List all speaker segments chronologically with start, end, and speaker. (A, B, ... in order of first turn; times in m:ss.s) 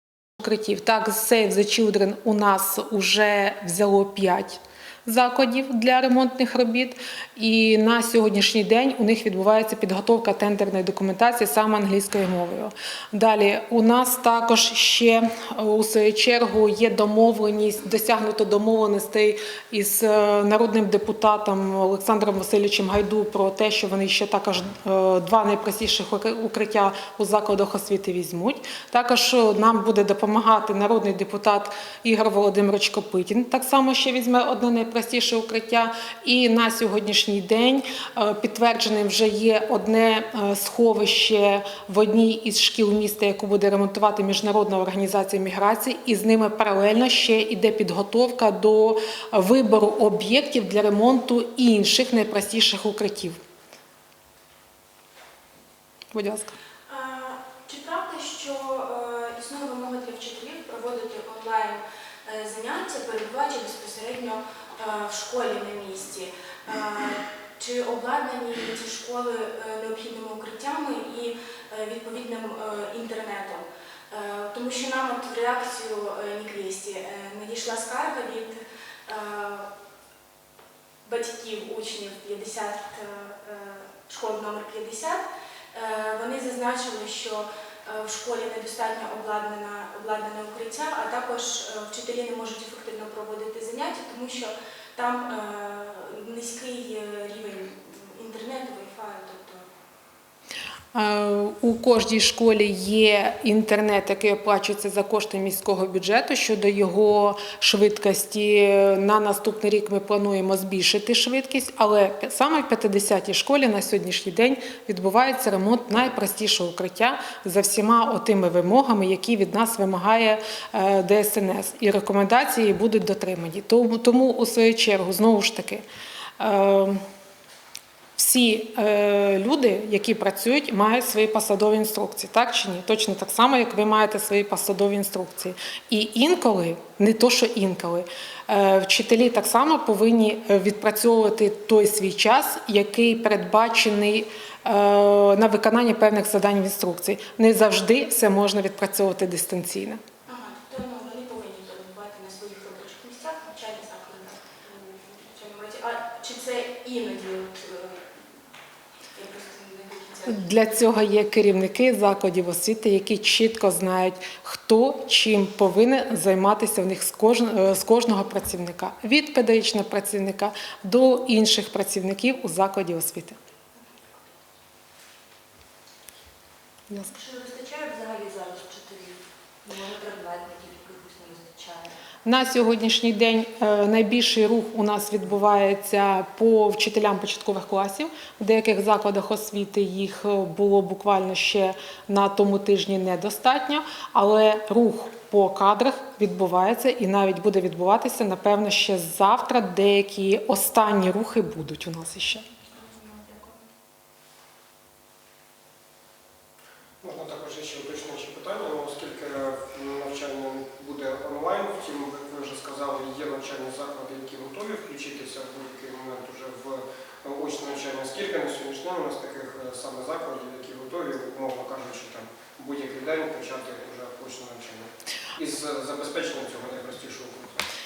0:00.4-0:53.4 A
0:56.1-0:56.5 A
0:56.9-1:19.7 B
1:21.0-1:39.6 B
1:40.9-2:05.8 A
2:06.4-2:07.0 A
2:08.2-2:30.0 A
2:30.3-2:38.2 B
2:39.1-2:40.5 B
2:40.3-2:53.4 A
2:57.1-3:01.9 C
3:02.2-3:22.4 A
3:22.7-3:23.6 B
3:27.0-3:47.6 D